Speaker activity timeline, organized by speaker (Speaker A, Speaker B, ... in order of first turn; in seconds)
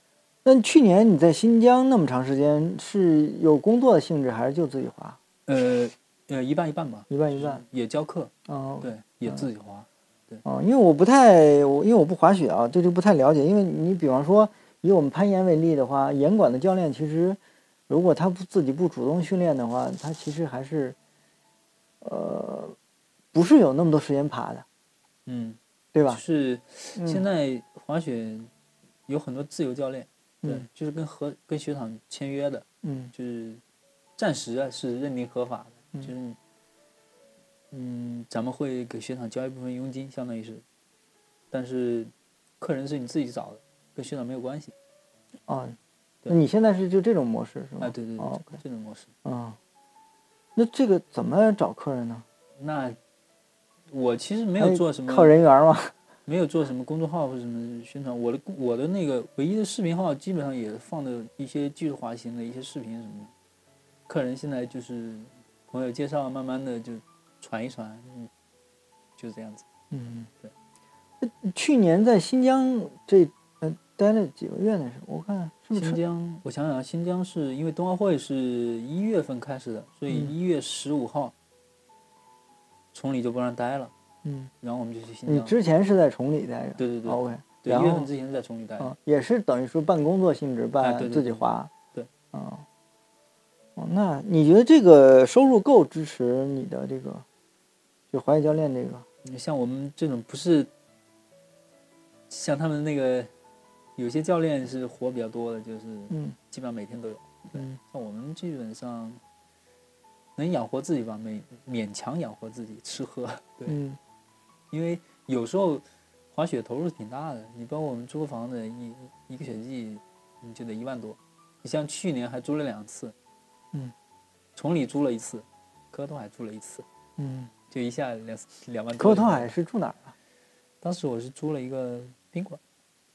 Speaker A: 0.4-5.2, 7.1-7.6, 8.5-9.5, 10.4-20.9, 22.0-22.8, 23.3-24.6, 25.9-26.2, 26.9-27.2, 32.8-33.1, 45.5-45.8, 46.3-48.6, 49.2-49.6, 50.5-52.2, 54.6-55.9, 69.9-70.3, 71.2-76.0, 84.2-84.5, 85.3-88.1, 88.8-91.7, 92.3-92.6, 93.8-97.2, 98.1-99.0, 106.1-106.4, 113.7-114.0, 127.2-127.5, 129.0-130.1
Speaker B: 5.5-10.4, 25.2-28.5, 29.1-33.6, 34.2-36.4, 37.7-40.6, 41.5-44.7, 47.8-49.1, 52.6-53.0, 53.9-55.3, 56.2-63.3, 64.1-68.3, 69.2-69.7, 75.7-81.3, 82.9-83.9, 84.6-85.6, 86.8-88.9, 90.8-92.1, 99.2-100.7, 102.3-103.3, 104.0-109.2, 110.4-113.8, 114.7-123.1, 124.5-126.8, 127.7-129.5, 130.8-132.6